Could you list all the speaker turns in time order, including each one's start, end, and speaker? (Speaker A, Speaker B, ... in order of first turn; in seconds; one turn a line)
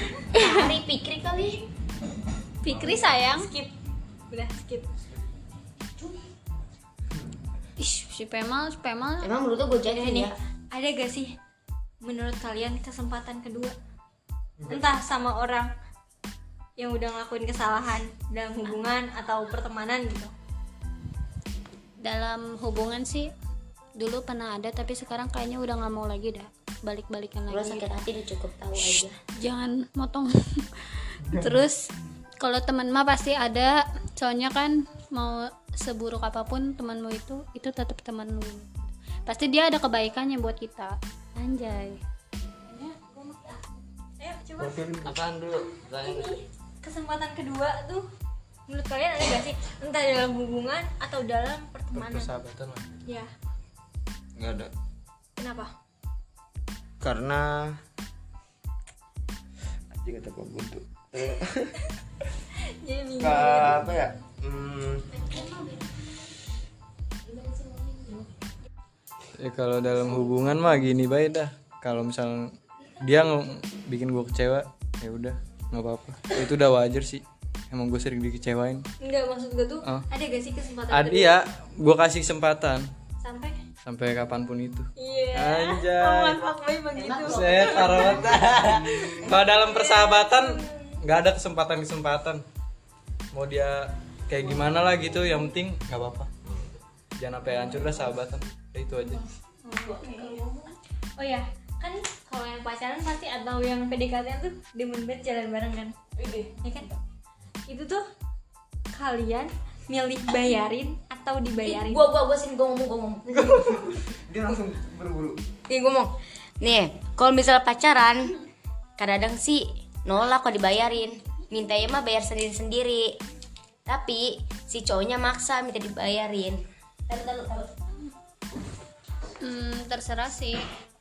Speaker A: 0.3-1.6
Speaker B: 2.6-3.5
Speaker C: 3.3-3.7
Speaker C: 4.3-4.9
Speaker B: 7.8-9.3
Speaker A: 9.2-10.3
Speaker C: 9.9-11.3
Speaker C: 12.0-13.7
Speaker D: 14.6-15.0
Speaker C: 14.7-15.7
Speaker C: 16.8-20.3
Speaker B: 22.0-23.3
Speaker B: 23.9-28.0
Speaker A: 27.5-29.2
Speaker B: 29.3-31.9
Speaker B: 32.4-38.7
Speaker B: 39.2-42.0
Speaker B: 42.7-43.6
Speaker C: 44.2-44.8
Speaker D: 44.6-45.2
Speaker E: 45.0-46.4
Speaker C: 46.0-48.1
Speaker C: 48.7-52.3
Speaker D: 51.9-53.0
Speaker E: 54.4-54.7
Speaker C: 55.4-55.7
Speaker E: 57.0-57.8
Speaker E: 60.0-61.7
Speaker C: 62.8-63.9
Speaker E: 63.2-65.2
Speaker A: 65.3-65.6
Speaker A: 67.3-68.2
Speaker D: 69.3-78.8
Speaker C: 79.0-81.4
Speaker D: 80.9-82.9
Speaker C: 83.2-83.6
Speaker D: 83.8-86.4
Speaker C: 85.0-88.1
Speaker A: 86.9-88.4
Speaker D: 87.2-92.4
Speaker E: 88.0-88.7
Speaker C: 89.2-91.0
Speaker D: 93.3-96.3
Speaker D: 97.2-99.2
Speaker B: 99.7-100.4
Speaker A: 99.8-100.5
Speaker C: 99.9-100.3
Speaker C: 101.2-106.0
Speaker A: 106.2-106.5
Speaker C: 106.6-107.0
Speaker C: 107.7-108.0
Speaker C: 108.9-112.0
Speaker A: 111.6-113.6
Speaker E: 113.7-115.4
Speaker A: 115.7-118.4
Speaker A: 119.0-123.2
Speaker A: 123.8-127.7
Speaker B: 129.4-130.6